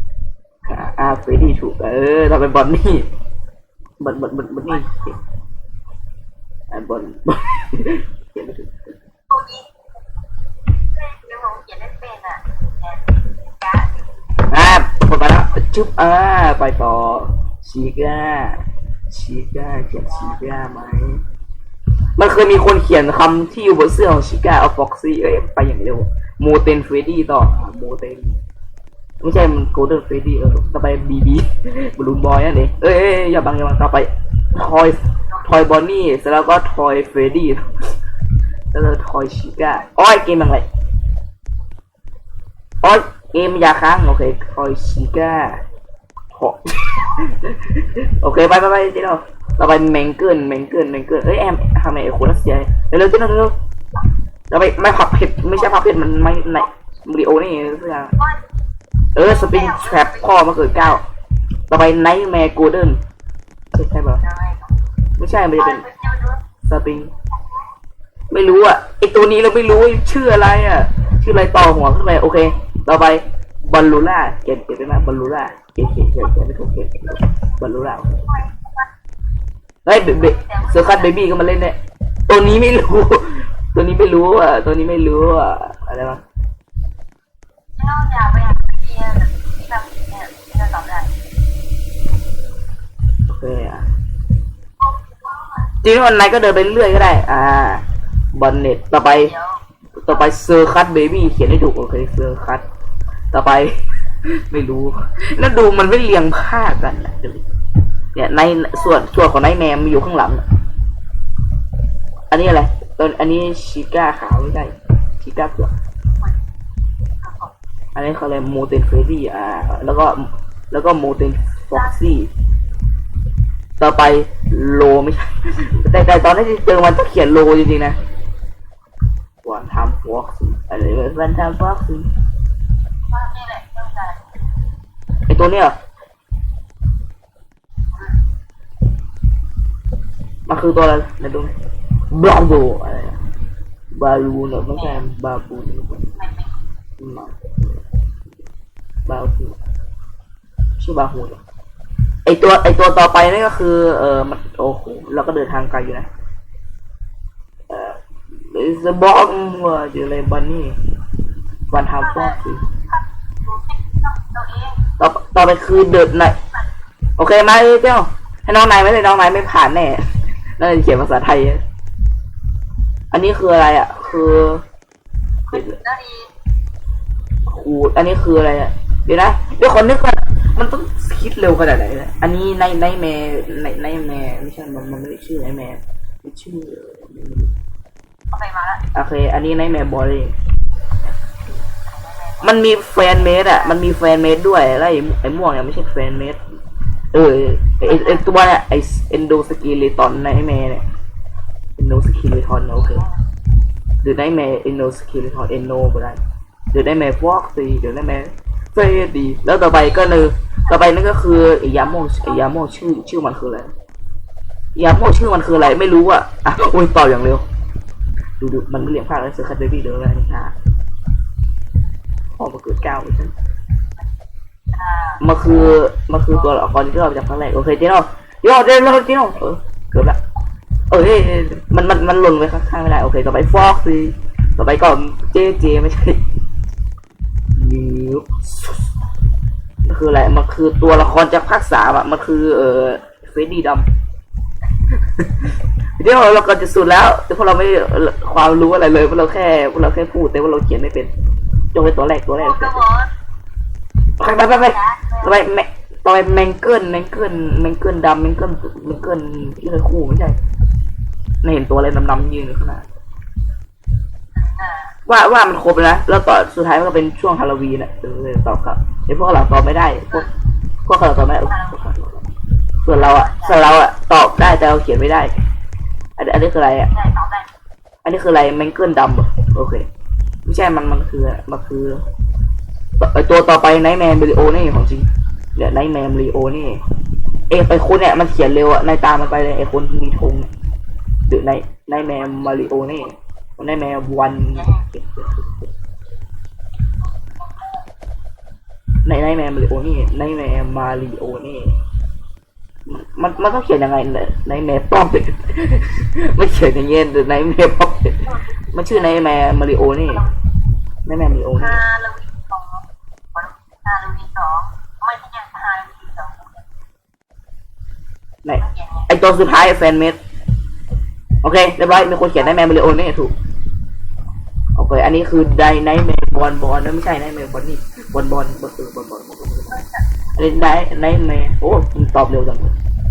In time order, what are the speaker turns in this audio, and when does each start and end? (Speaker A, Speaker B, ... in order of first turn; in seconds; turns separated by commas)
Speaker A: 0.7-3.1, Speaker A: 4.0-5.2, Speaker A: 6.7-9.0, Speaker B: 9.3-9.7, Speaker B: 10.9-14.1, Speaker A: 14.5-21.2, Speaker A: 22.2-28.4, Speaker A: 29.2-37.7, Speaker A: 38.7-40.7, Speaker A: 42.8-45.6, Speaker A: 46.3-53.5, Speaker A: 54.5-58.1, Speaker A: 59.1-61.0, Speaker B: 59.2-61.0, Speaker A: 61.7-63.0, Speaker A: 63.7-64.2, Speaker B: 64.2-64.7, Speaker A: 65.2-65.8, Speaker B: 65.6-66.4, Speaker A: 66.6-67.1, Speaker A: 68.3-78.2, Speaker B: 78.2-78.8, Speaker A: 79.8-81.8, Speaker B: 80.0-81.2, Speaker A: 82.3-86.2, Speaker B: 87.8-91.1, Speaker A: 93.3-93.9, Speaker B: 94.9-95.5, Speaker A: 95.8-99.3, Speaker B: 99.1-99.6, Speaker A: 100.0-102.6, Speaker A: 103.3-103.7, Speaker A: 104.3-107.5, Speaker A: 108.1-110.5, Speaker A: 112.3-115.7, Speaker B: 117.2-117.5, Speaker A: 118.0-122.3, Speaker A: 123.8-128.0, Speaker A: 129.4-132.1, Speaker B: 133.1-134.3, Speaker A: 135.3-135.8, Speaker A: 140.5-141.6, Speaker A: 142.1-143.2, Speaker A: 143.9-146.1, Speaker B: 146.1-146.6, Speaker A: 147.0-147.8, Speaker A: 149.1-149.6, Speaker A: 150.8-151.4, Speaker A: 152.3-156.1, Speaker A: 157.7-160.8, Speaker A: 161.7-162.7, Speaker B: 162.0-164.8, Speaker A: 165.0-166.4, Speaker A: 167.2-170.1, Speaker A: 170.6-171.6, Speaker A: 173.1-174.7, Speaker B: 175.5-176.3, Speaker A: 175.5-175.8, Speaker A: 177.5-187.5, Speaker B: 188.3-188.8, Speaker A: 188.9-190.3, Speaker B: 191.8-192.5, Speaker A: 192.4-196.4, Speaker B: 193.1-193.8, Speaker A: 197.1-200.9, Speaker B: 197.8-198.2, Speaker A: 201.8-203.1, Speaker B: 202.8-203.2, Speaker A: 204.0-206.2, Speaker A: 206.7-213.7, Speaker B: 209.8-210.3, Speaker A: 214.8-217.5, Speaker A: 218.4-220.6, Speaker A: 222.4-223.3, Speaker B: 224.7-225.2, Speaker A: 225.2-230.2, Speaker A: 230.9-236.2, Speaker A: 237.5-238.9, Speaker A: 239.8-243.9, Speaker A: 245.2-251.1, Speaker A: 251.7-252.8, Speaker B: 252.4-253.1, Speaker A: 254.2-260.4, Speaker B: 254.4-255.3, Speaker A: 261.4-262.9, Speaker B: 264.4-264.9, Speaker A: 265.1-270.3, Speaker A: 270.9-272.3, Speaker B: 271.4-271.8, Speaker A: 272.8-275.4, Speaker B: 272.9-273.8, Speaker A: 276.2-276.9, Speaker B: 276.9-277.5, Speaker A: 278.0-279.9, Speaker A: 280.4-282.1, Speaker A: 283.0-286.8, Speaker A: 287.5-290.5, Speaker A: 291.2-295.7, Speaker B: 294.6-294.8, Speaker A: 299.0-301.8, Speaker A: 302.9-310.2, Speaker B: 308.3-308.6, Speaker B: 310.1-310.4, Speaker A: 311.1-311.8, Speaker B: 311.6-316.6, Speaker A: 318.4-320.2, Speaker B: 318.6-319.1, Speaker A: 321.4-323.4, Speaker A: 324.8-329.8, Speaker B: 329.7-330.0, Speaker A: 330.4-332.8